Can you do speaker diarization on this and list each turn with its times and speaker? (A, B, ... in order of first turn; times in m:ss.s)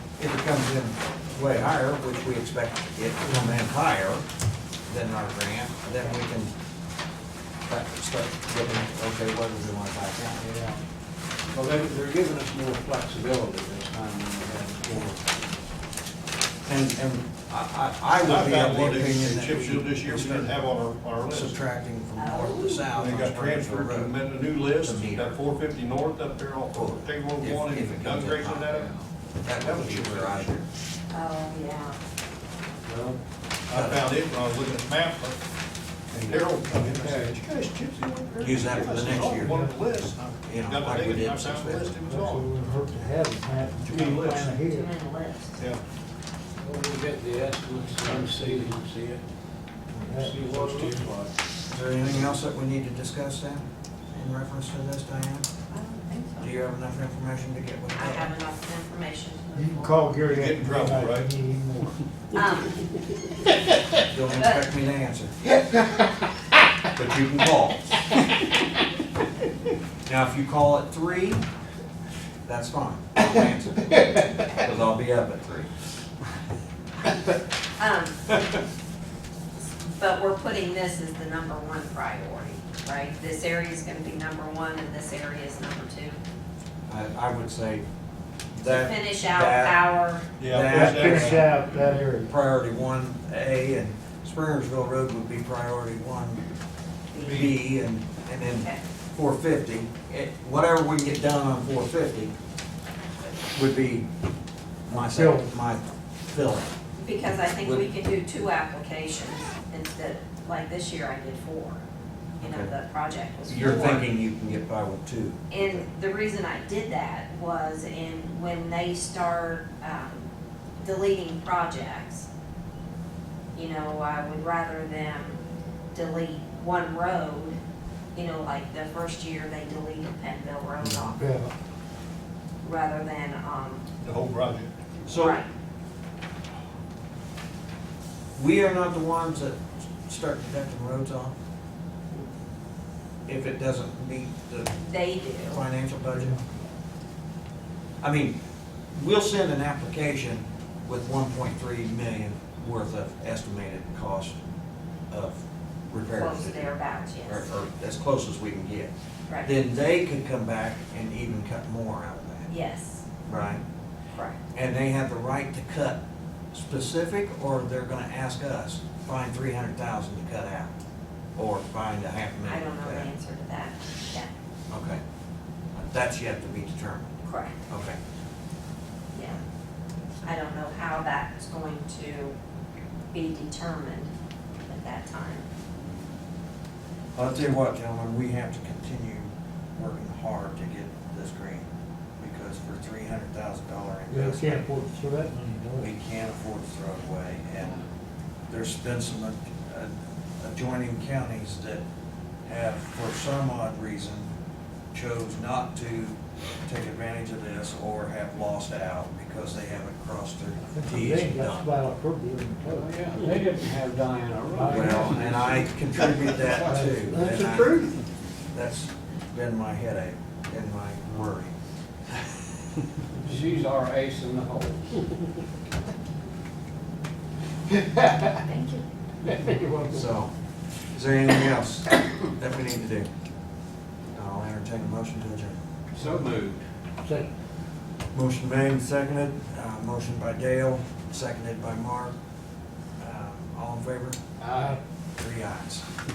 0:00.2-0:04.2 A
0:04.9-0:06.5 A
0:07.7-0:10.4 A
0:10.4-0:10.8 B
0:11.5-0:15.7 B
0:16.7-0:20.5 A
0:18.2-0:21.6 C
0:21.3-0:24.2 A
0:22.2-0:22.9 D
0:23.0-0:29.0 C
0:24.8-0:25.4 A
0:26.7-0:28.7 A
0:28.7-0:29.1 B
0:29.4-0:30.7 A
0:29.6-0:30.5 C
0:31.1-0:32.0 D
0:32.9-0:33.2 B
0:33.7-0:35.4 C
0:33.7-0:34.0 A
0:36.1-0:42.5 C
0:36.8-0:37.4 B
0:38.4-0:39.6 A
0:40.4-0:42.0 A
0:42.1-0:44.9 E
0:43.8-0:44.6 C
0:44.6-0:45.6 D
0:46.6-0:49.2 B
0:49.9-0:50.7 E
0:50.1-0:51.3 B
0:51.7-0:55.5 A
0:55.7-0:56.5 D
0:56.4-0:58.3 A
0:58.0-1:00.0 D
0:59.5-1:02.0 E
1:00.2-1:01.3 C
1:02.3-1:02.8 D
1:04.1-1:05.4 A
1:04.3-1:04.7 D
1:07.0-1:07.9 A
1:10.1-1:11.4 A
1:12.5-1:15.7 A
1:17.8-1:18.4 D
1:19.9-1:26.2 D
1:26.9-1:27.8 A
1:28.5-1:29.8 A
1:28.7-1:30.3 D
1:30.4-1:31.5 C
1:30.5-1:31.5 A
1:30.7-1:32.3 E
1:32.3-1:36.4 A
1:37.1-1:37.6 D
1:37.2-1:42.3 A
1:38.5-1:38.8 D
1:43.5-1:44.1 A
1:44.9-1:46.7 A
1:44.9-1:45.5 E
1:47.0-1:51.8 D
1:47.6-1:47.9 A
1:52.4-1:52.7 A
1:52.4-1:54.1 D
1:53.5-1:55.8 A
1:55.5-2:02.3 D
2:03.5-2:05.4 D
2:05.9-2:07.6 D
2:08.1-2:11.3 D
2:10.8-2:11.1 A
2:11.2-2:11.5 E
2:12.6-2:13.9 D
2:14.0-2:14.7 C
2:15.0-2:15.4 A
2:15.1-2:15.5 D
2:18.4-2:21.4 A
2:23.3-2:24.8 A
2:24.8-2:25.6 D
2:25.4-2:26.4 A
2:28.0-2:28.4 A
2:28.9-2:34.4 A
2:35.1-2:36.7 A
2:36.2-2:37.5 D
2:37.2-2:38.9 A
2:39.4-2:42.5 A
2:42.5-2:43.0 D
2:43.3-2:43.6 A
2:44.1-2:44.4 D
2:44.5-2:46.0 A
2:46.5-2:50.7 A
2:51.4-2:53.1 A
2:52.4-2:54.3 D
2:54.7-2:55.0 A
2:55.7-2:57.1 A
2:57.2-2:57.6 D
2:57.7-2:58.0 A
2:59.1-2:59.4 D
3:00.2-3:02.4 D
3:03.1-3:04.1 D
3:04.6-3:05.5 D
3:07.2-3:11.7 A
3:12.2-3:14.7 A
3:14.1-3:15.9 E
3:15.8-3:17.8 A
3:18.5-3:21.8 A
3:22.4-3:24.3 A
3:24.9-3:31.7 A
3:30.6-3:32.9 E
3:32.7-3:36.7 B
3:34.5-3:35.1 E
3:34.7-3:37.9 A
3:36.7-3:38.0 E
3:38.5-3:41.5 A
3:43.3-3:45.0 B
3:48.5-3:48.8 D
3:49.5-3:49.8 E
3:49.9-3:53.1 A
3:54.1-3:55.6 A
3:55.9-3:56.6 B
3:58.1-4:02.2 A
4:03.0-4:04.2 A
4:04.4-4:04.8 B
4:05.2-4:05.9 A